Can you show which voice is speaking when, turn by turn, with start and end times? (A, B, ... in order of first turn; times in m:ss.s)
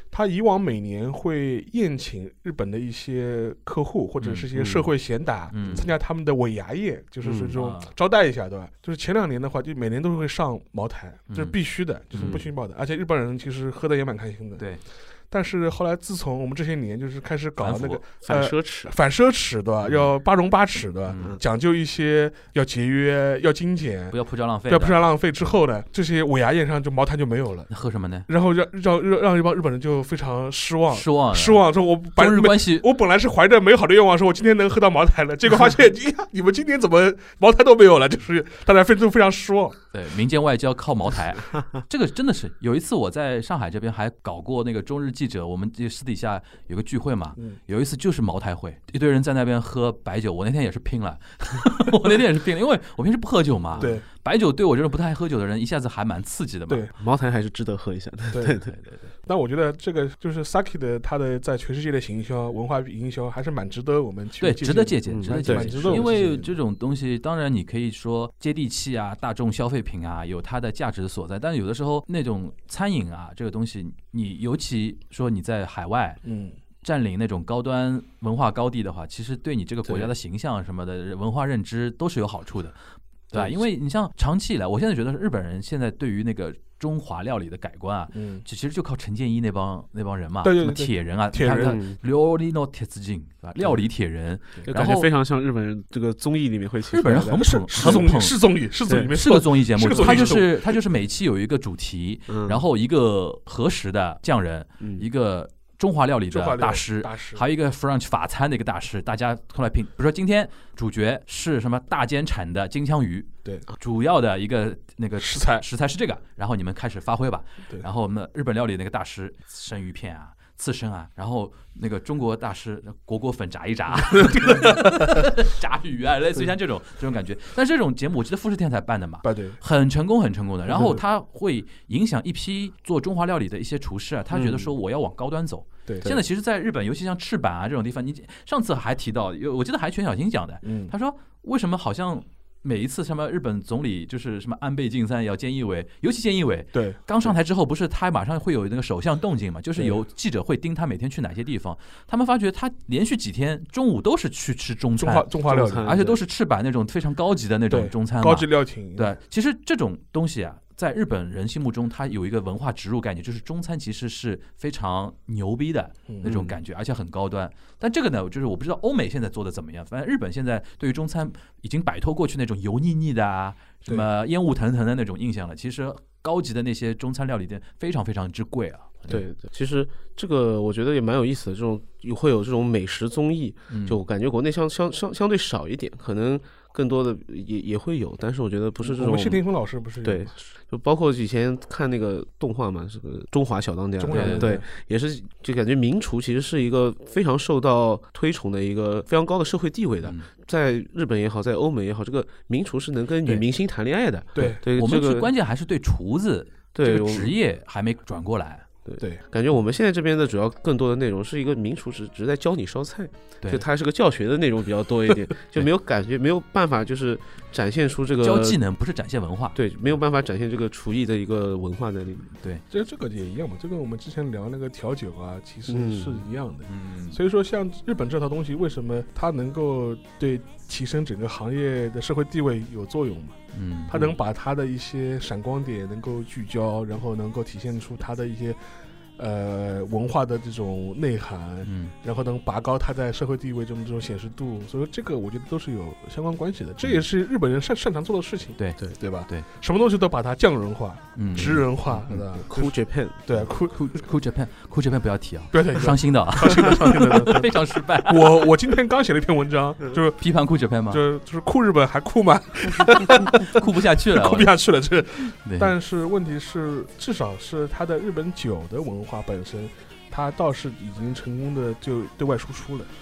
0:00.1-0:14.7 A
0:04.2-0:04.5 B
0:04.6-0:04.9 C
0:05.5-0:05.9 B
0:07.2-0:07.6 C
0:07.5-0:07.9 B
0:11.3-0:11.6 B
0:12.2-0:12.5 C
0:15.3-0:24.2 A
0:17.6-0:18.0 B
0:17.7-0:18.9 C
0:21.1-0:21.4 B
0:24.1-0:25.0 B
0:24.7-0:27.7 A
0:27.7-0:28.3 B
0:28.3-0:39.8 A
0:30.9-0:32.9 B
0:39.9-0:56.9 B
0:53.8-0:54.1 A
0:57.0-0:58.8 C
0:58.3-0:58.6 A
0:58.7-0:59.0 B
0:59.3-1:06.5 A
1:04.4-1:16.2 B
1:05.1-1:06.1 C
1:16.2-1:16.6 A
1:16.8-1:22.8 B
1:23.3-1:35.1 B
1:28.1-1:28.4 A
1:30.4-1:31.8 A
1:31.7-1:32.0 C
1:34.6-1:38.1 C
1:36.9-1:38.4 B
1:37.3-1:40.7 A
1:38.9-1:39.1 C
1:39.1-2:59.3 B
1:39.9-1:40.4 C
1:42.3-1:42.6 C
1:44.8-1:45.1 C
1:46.3-1:47.5 A
1:55.2-1:55.6 A
2:04.1-2:04.9 A
2:09.2-2:09.6 A
2:10.7-2:11.0 A
2:15.9-2:16.1 A
2:20.6-2:20.9 A
2:26.7-2:27.3 A
2:35.0-2:35.9 A
2:35.5-2:36.2 C
2:37.7-2:39.2 A
2:46.1-2:46.4 A
2:46.2-2:46.6 C
2:59.1-3:09.4 C
3:03.7-3:04.0 B
3:08.8-3:10.3 A
3:10.0-3:25.3 C
3:14.0-3:14.6 A
3:14.1-3:14.5 B
3:20.0-3:20.3 B
3:24.4-3:24.6 A
3:24.4-3:28.7 B
3:26.7-3:27.3 C
3:28.8-3:38.6 C
3:38.2-3:39.9 B
3:39.6-3:42.3 C
3:42.7-3:58.6 A
3:45.7-3:46.3 C
3:46.7-3:47.2 B
3:53.5-3:54.1 B
3:59.2-4:14.0 A
4:01.6-4:01.9 B
4:08.6-4:09.5 B
4:11.2-4:12.2 B
4:12.4-4:13.5 C
4:13.7-4:18.5 B
4:15.5-4:20.2 A
4:20.2-4:21.0 B
4:20.9-4:32.9 A
4:22.8-4:24.5 B
4:25.4-4:25.7 B